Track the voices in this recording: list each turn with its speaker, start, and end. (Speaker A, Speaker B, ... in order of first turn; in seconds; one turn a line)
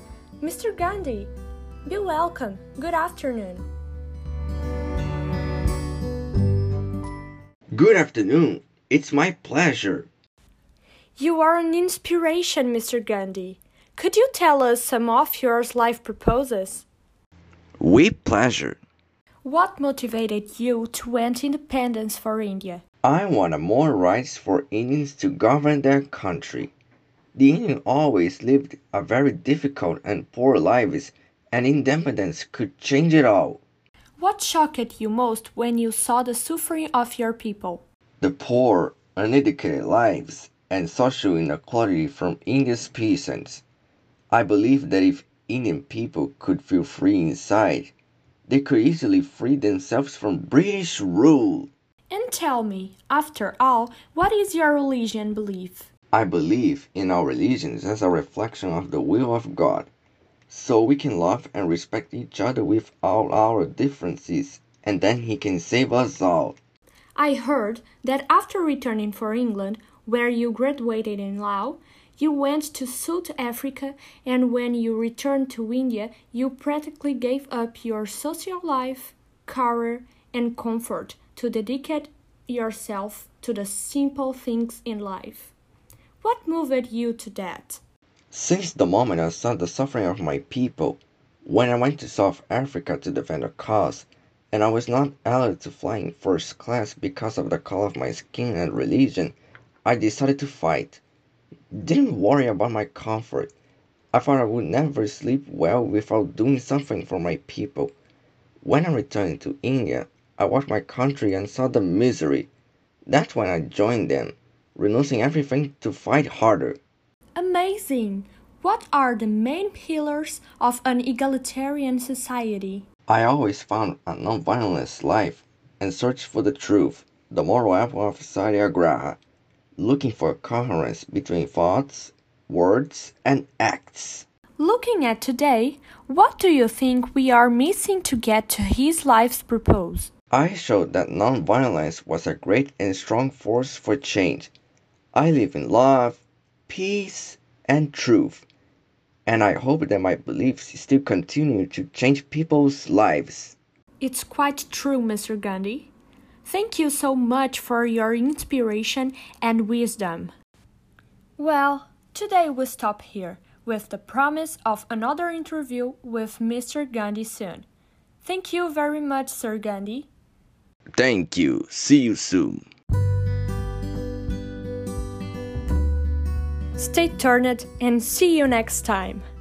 Speaker A: 0.4-1.3
Speaker A: 1.9-3.6
Speaker B: 7.7-10.1
Speaker A: 11.2-16.9
Speaker B: 17.8-18.8
Speaker A: 19.4-22.8
Speaker B: 23.0-26.7
Speaker B: 27.3-33.6
Speaker A: 34.2-37.8
Speaker B: 38.2-43.6
Speaker B: 44.3-47.9
Speaker B: 48.5-51.7
Speaker A: 52.1-55.9
Speaker B: 56.1-59.9
Speaker B: 60.5-66.6
Speaker A: 67.2-85.5
Speaker A: 86.2-87.8
Speaker B: 88.3-101.0
Speaker B: 101.7-103.5
Speaker B: 104.1-107.9
Speaker B: 108.6-112.5
Speaker B: 113.1-116.8
Speaker A: 117.3-122.8
Speaker B: 123.1-129.2
Speaker B: 129.8-134.2
Speaker A: 134.6-140.1
Speaker B: 140.3-144.5
Speaker B: 145.1-148.4
Speaker B: 149.2-153.6
Speaker A: 154.0-155.9
Speaker A: 156.4-160.3
Speaker A: 161.4-167.7
Speaker A: 168.2-170.1
Speaker B: 171.0-172.6
Speaker A: 176.8-179.2